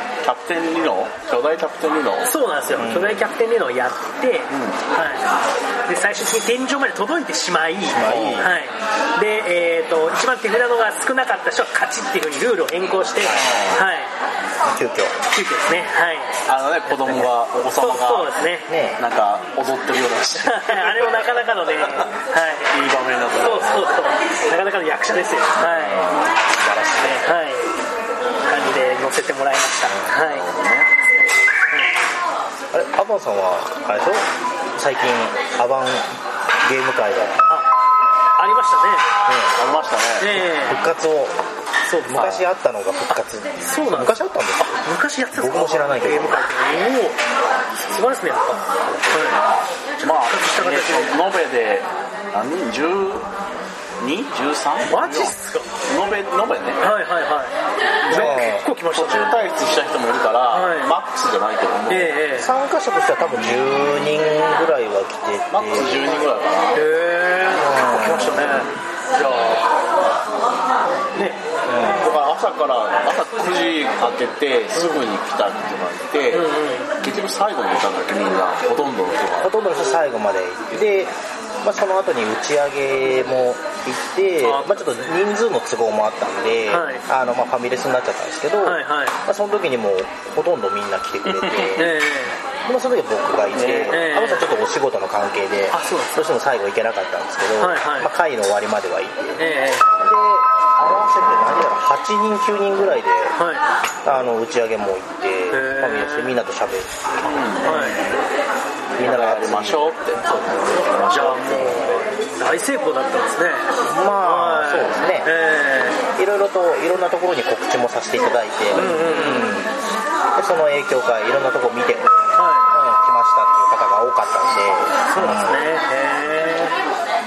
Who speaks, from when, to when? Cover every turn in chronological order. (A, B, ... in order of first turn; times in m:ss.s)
0:00.2-0:02.3 A
0:02.2-0:05.3 B
0:02.8-0:03.3 C
0:04.5-0:04.8 A
0:05.9-0:14.1 B
0:07.9-0:08.5 C
0:08.0-0:08.4 A
0:13.2-0:13.8 C
0:13.3-0:13.8 A
0:14.6-0:15.9 C
0:15.3-0:16.3 B
0:16.5-0:18.3 A
0:17.8-0:18.7 B
0:18.7-0:19.0 C
0:19.0-0:21.2 A
0:20.4-0:22.7 B
0:22.7-0:23.9 A
0:23.3-0:26.1 B
0:25.6-0:26.3 A
0:26.6-0:27.3 C
0:27.0-0:27.7 B
0:28.4-0:30.5 B
0:29.8-0:30.1 C
0:30.2-0:30.9 A
0:32.7-0:36.1 C
0:36.6-0:37.4 C
0:38.4-0:39.1 B
0:39.2-0:39.5 C
0:39.6-0:40.4 A
0:40.2-0:40.8 B
0:40.4-0:41.4 C
0:41.9-0:42.4 B
0:42.1-0:44.8 C
0:43.6-0:47.2 B
0:45.3-0:46.4 C
0:47.9-0:49.4 B
0:50.0-0:51.2 B
0:50.0-0:53.3 A
0:54.0-0:55.3 A
0:54.9-0:55.7 B
0:55.9-0:56.8 A
0:56.8-0:57.5 B
0:58.0-0:58.4 A
0:58.1-0:59.4 B
0:58.1-0:58.6 C
0:58.9-1:02.2 A
1:00.5-1:00.9 B
1:01.9-1:02.5 B
1:02.3-1:06.3 C
1:05.5-1:06.8 A
1:06.7-1:09.7 B
1:07.5-1:08.6 C
1:11.1-1:11.4 B
1:11.6-1:12.2 C
1:12.0-1:16.5 A
1:14.8-1:15.0 B
1:16.3-1:16.9 B
1:17.0-1:19.5 A
1:19.4-1:31.9 C
1:24.4-1:25.1 B
1:26.7-1:27.0 B
1:28.6-1:29.2 B
1:31.2-1:31.9 A
1:31.8-1:32.4 B
1:32.6-1:39.4 C
1:33.5-1:34.0 A
1:33.9-1:34.5 B
1:35.7-1:36.2 B
1:37.6-1:38.1 B
1:39.4-1:39.8 B
1:40.0-1:43.4 C
1:43.4-1:43.6 B
1:44.0-1:48.2 C
1:45.5-1:46.4 B
1:47.2-1:47.9 A
1:47.6-1:48.1 B
1:49.0-1:50.8 C
1:49.0-1:51.8 A
1:50.7-1:53.7 B
1:51.6-1:52.0 C
1:53.8-1:55.3 C
1:54.2-1:56.0 B
1:56.2-1:59.7 C
1:58.7-1:59.6 B
2:00.4-2:02.1 C
2:02.4-2:02.7 B
2:02.7-2:05.6 C
2:05.1-2:06.7 B